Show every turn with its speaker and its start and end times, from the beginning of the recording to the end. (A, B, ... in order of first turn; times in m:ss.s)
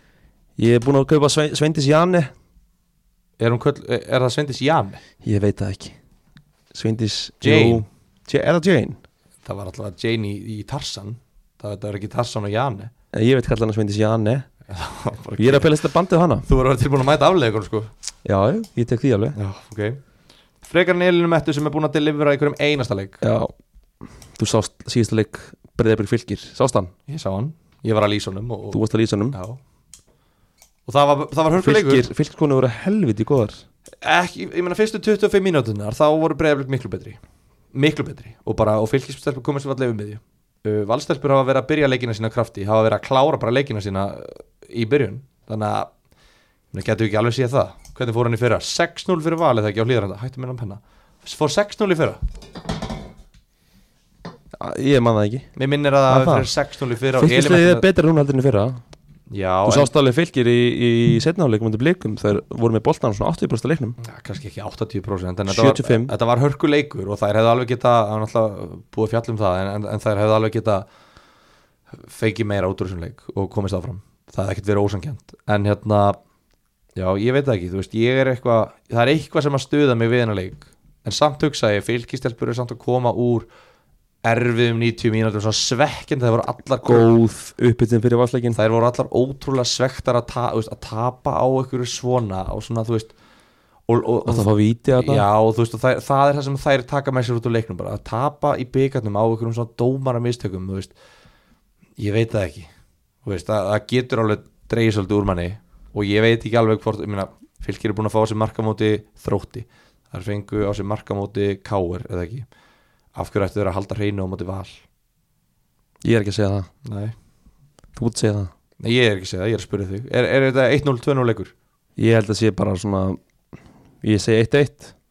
0:00.6-0:02.3 A
0:03.4-0:05.0 B
0:05.2-0:06.0 A
0:06.7-0:09.0 A
0:07.4-0:07.8 B
0:09.4-0:12.9 B
0:13.1-0:14.5 A
0:14.7-0:15.8 B
0:15.4-0:16.4 A
0:16.4-0:17.9 B
0:18.2-0:19.4 A
0:19.3-0:20.0 B
0:20.6-0:23.2 B
0:23.2-0:23.5 A
0:24.4-0:26.9 A
0:27.1-0:29.6 B
0:28.7-0:29.4 A
0:30.9-0:32.1 B
0:31.6-0:33.6 A
0:34.0-0:37.2 B
0:37.7-0:45.9 B
0:46.7-0:52.2 B
0:54.6-0:55.5 A
0:55.6-0:57.8 B
0:56.1-0:56.5 A
0:57.2-0:58.8 A
0:59.3-0:59.9 B
0:59.6-1:04.0 A
1:04.0-1:10.9 B
1:05.5-1:06.1 A
1:12.0-1:16.2 B
1:17.0-1:23.5 B
1:24.2-1:27.1 B
1:26.8-1:28.6 A
1:28.5-1:33.1 B
1:33.9-1:40.9 B
1:34.2-1:35.2 A
1:42.0-1:42.7 B
1:43.2-1:52.4 B
1:53.1-1:54.8 B
1:56.0-1:56.7 A
1:56.8-1:57.1 B
1:58.0-1:58.5 A
1:58.8-2:01.5 B
2:02.0-2:03.2 A
2:04.0-2:04.9 A